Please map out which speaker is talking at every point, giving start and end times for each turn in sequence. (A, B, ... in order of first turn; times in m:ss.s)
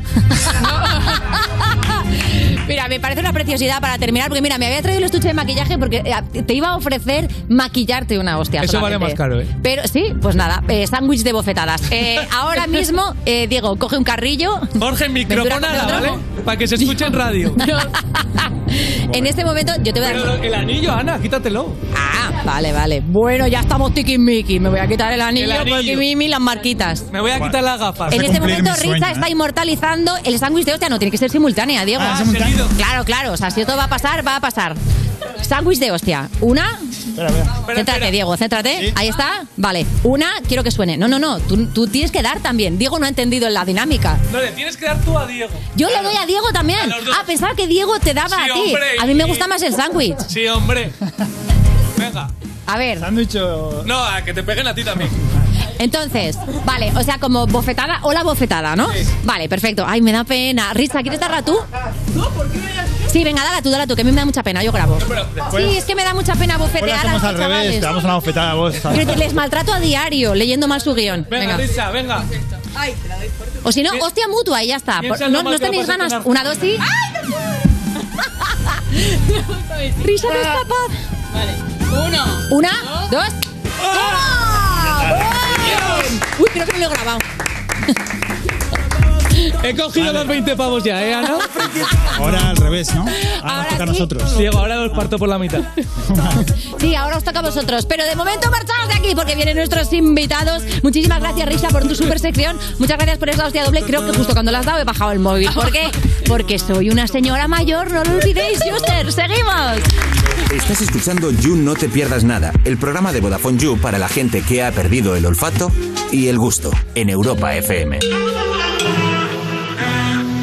0:00.4-0:14.8 A
0:00.6-0:01.1 B
0:08.6-0:09.5 C
0:14.8-0:17.6 C
0:15.3-0:16.2 A
0:17.6-0:17.8 B
0:17.6-0:20.3 A
0:20.0-0:21.8 C
0:21.9-0:27.0 A
0:25.4-0:26.1 C
0:27.1-0:28.6 C
0:27.4-0:29.3 D
0:28.1-0:34.8 A
0:32.0-0:32.7 D
0:32.1-0:32.7 C
0:35.4-0:36.8 A
0:37.2-0:37.6 D
0:37.7-0:38.2 C
0:37.7-0:44.2 A
0:44.3-0:46.2 C
0:45.8-0:50.2 A
0:46.8-0:47.3 C
0:48.3-0:49.5 C
0:50.3-0:51.0 C
0:52.0-0:52.3 C
0:52.7-0:53.1 A
0:53.0-0:53.9 D
0:53.8-0:55.2 C
0:55.8-1:01.7 A
1:03.1-1:07.9 A
1:05.1-1:05.4 C
1:05.5-1:05.8 D
1:06.8-1:09.2 D
1:08.9-1:11.7 A
1:11.3-1:12.3 C
1:13.6-1:16.8 A
1:15.0-1:16.3 C
1:19.1-1:20.6 B
1:20.0-1:21.0 A
1:21.3-1:23.1 B
1:22.5-1:23.4 A
1:23.9-1:27.2 A
1:29.6-1:31.6 C
1:30.0-1:30.3 D
1:32.0-1:34.5 D
1:33.4-1:34.1 A
1:34.3-1:35.7 C
1:36.1-1:36.4 D
1:36.7-1:49.9 A
1:45.5-1:45.8 B
1:50.5-1:58.0 E